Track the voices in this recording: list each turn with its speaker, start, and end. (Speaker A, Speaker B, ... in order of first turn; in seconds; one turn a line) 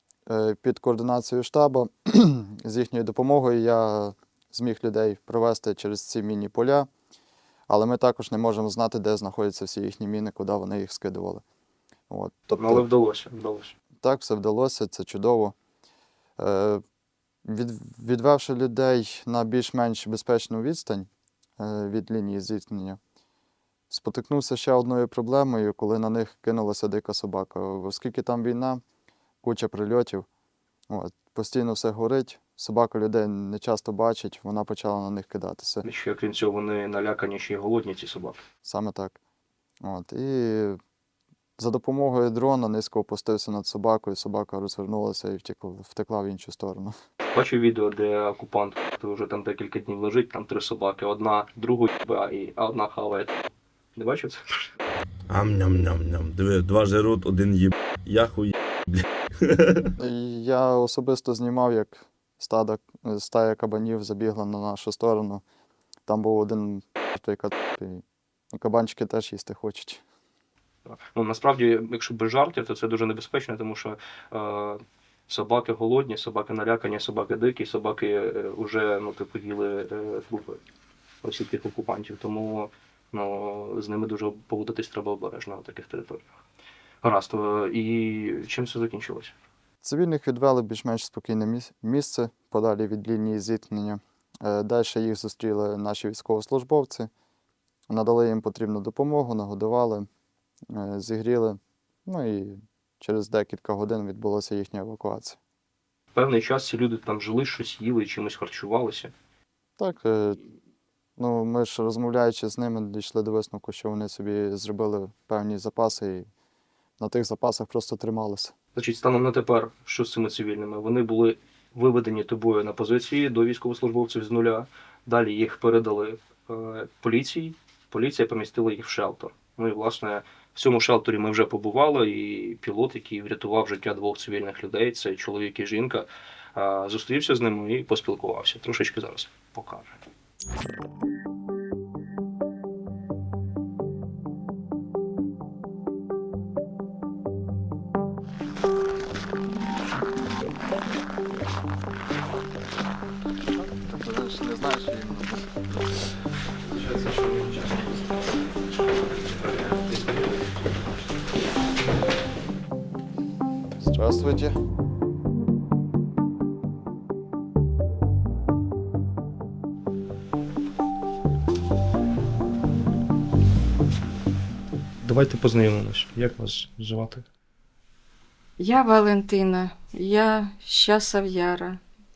Speaker A: 0.3-6.9
Speaker A: 7.7-11.4
Speaker A: 12.1-12.8
Speaker B: 12.6-13.7
Speaker A: 14.0-15.5
Speaker A: 16.4-16.8
Speaker A: 17.4-23.0
Speaker A: 23.9-28.8
Speaker A: 29.4-30.2
Speaker A: 30.9-35.8
Speaker B: 35.8-38.4
Speaker A: 38.6-39.2
Speaker A: 39.8-40.8
Speaker A: 41.6-46.9
Speaker B: 47.3-54.7
Speaker C: 55.3-59.9
Speaker A: 60.0-65.4
Speaker A: 66.1-70.0
Speaker B: 70.8-80.6
Speaker B: 81.2-86.3
Speaker B: 87.0-89.3
Speaker A: 89.8-97.1
Speaker A: 97.9-100.1
Speaker A: 100.7-105.4
Speaker B: 106.1-109.1
Speaker A: 109.8-110.4
Speaker A: 111.2-116.3
Speaker A: 117.0-118.5
Speaker B: 118.8-140.0
Speaker A: 153.5-155.9
Speaker B: 156.8-157.8
Speaker A: 157.5-157.9
Speaker B: 158.8-160.9
Speaker A: 163.8-164.6
Speaker B: 175.0-177.2
Speaker D: 178.6-181.8